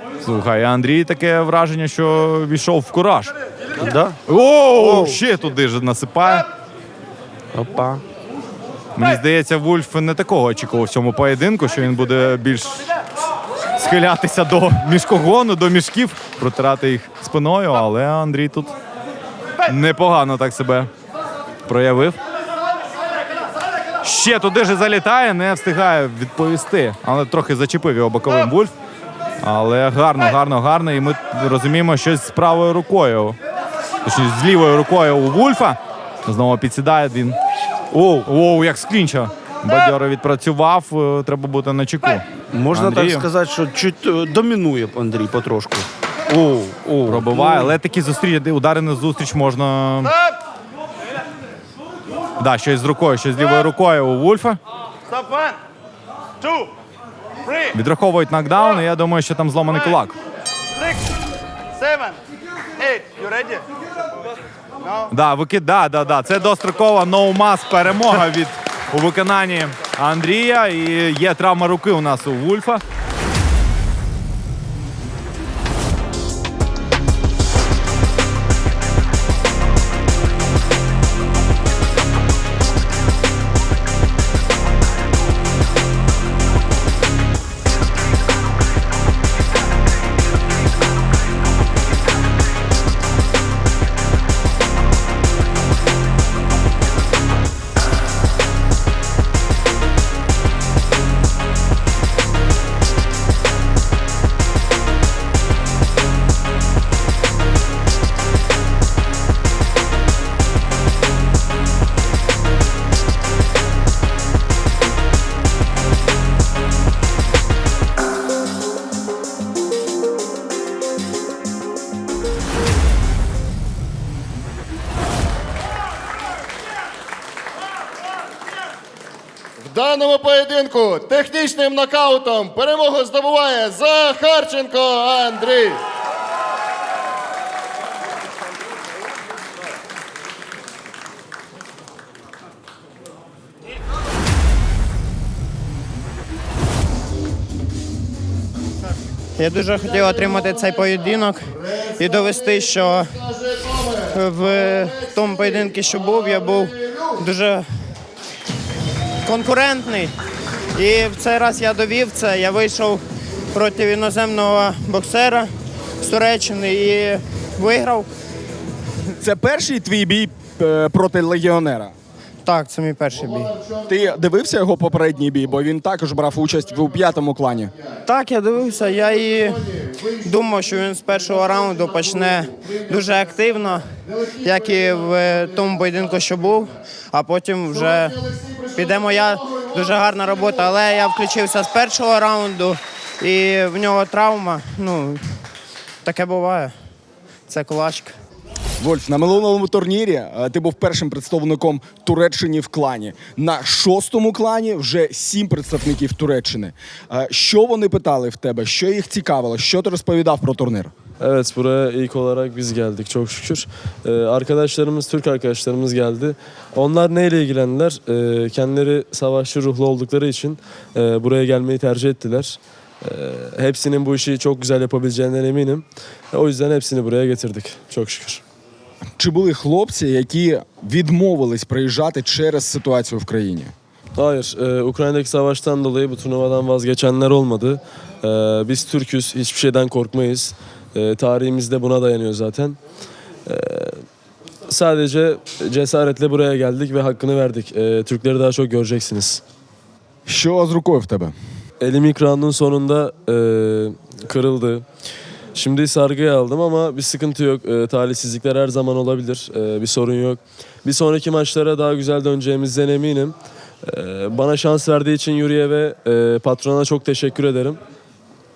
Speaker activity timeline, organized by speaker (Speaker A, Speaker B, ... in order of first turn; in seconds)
Speaker A: 0.2-3.3, 4.3-6.5, 8.9-12.9, 13.8-18.7, 19.6-20.9, 21.6-22.2, 24.0-28.7, 29.4-33.4, 34.0-37.4, 37.9-43.3, 47.0-50.1, 52.4-54.6, 57.7-60.1, 65.1-72.8
Speaker B: 3.8-4.2, 4.7-5.2, 7.5-8.0, 42.5-47.7
Speaker C: 129.6-135.8
Speaker D: 149.4-153.3, 154.0-157.7, 159.2-160.1, 160.8-165.5, 166.0-168.1, 172.4-173.6, 178.1-183.8, 184.4-195.2, 196.0-196.7, 197.5-198.1
Speaker E: 169.2-171.9, 173.9-177.7, 198.8-210.9, 229.2-233.7, 250.2-251.3
Speaker F: 211.2-228.4, 234.2-242.8, 243.4-244.1, 244.7-249.4, 251.8-254.8, 255.5-267.8